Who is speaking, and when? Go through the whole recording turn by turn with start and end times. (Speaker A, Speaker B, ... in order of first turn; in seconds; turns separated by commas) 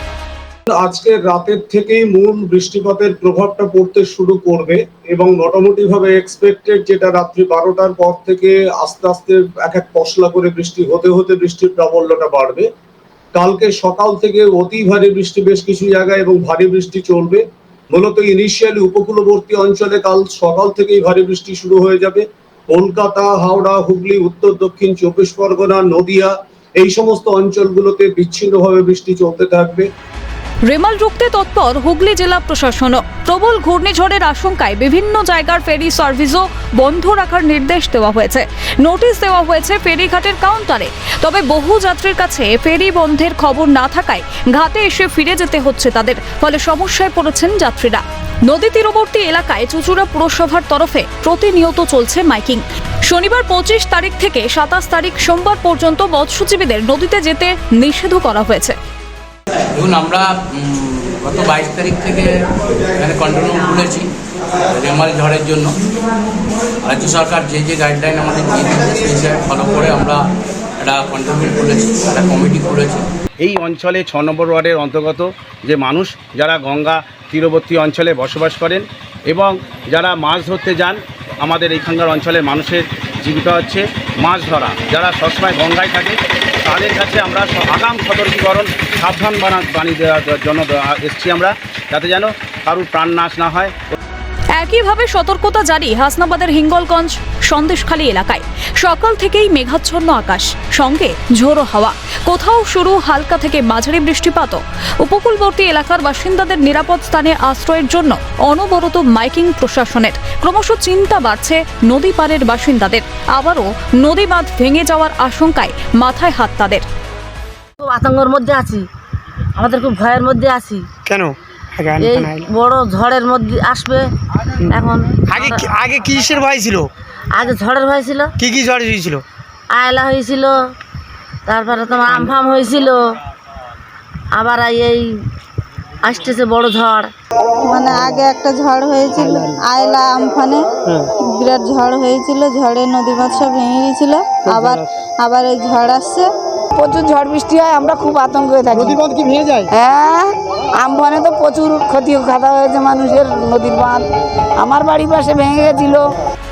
Speaker A: 0.7-12.7, Speaker A: 13.3-29.9, Speaker B: 30.6-58.7, Speaker C: 59.7-62.3, Speaker C: 63.0-64.1, Speaker C: 64.7-65.7, Speaker C: 66.8-70.2, Speaker C: 70.8-73.1, Speaker D: 73.4-94.0, Speaker B: 94.5-116.8, Speaker E: 117.8-118.8, Speaker E: 119.5-120.9, Speaker F: 121.0-122.5, Speaker E: 122.0-124.0, Speaker E: 124.7-125.7, Speaker F: 125.2-126.9, Speaker E: 127.3-128.3, Speaker F: 128.4-129.2, Speaker E: 129.7-130.6, Speaker E: 131.5-133.0, Speaker F: 132.1-132.3, Speaker E: 134.3-135.1, Speaker E: 136.0-137.1, Speaker G: 137.6-140.6, Speaker F: 139.3-139.6, Speaker G: 141.2-146.3, Speaker F: 144.4-144.9, Speaker H: 146.8-149.0, Speaker F: 148.7-149.7, Speaker H: 149.7-154.0, Speaker H: 154.6-156.0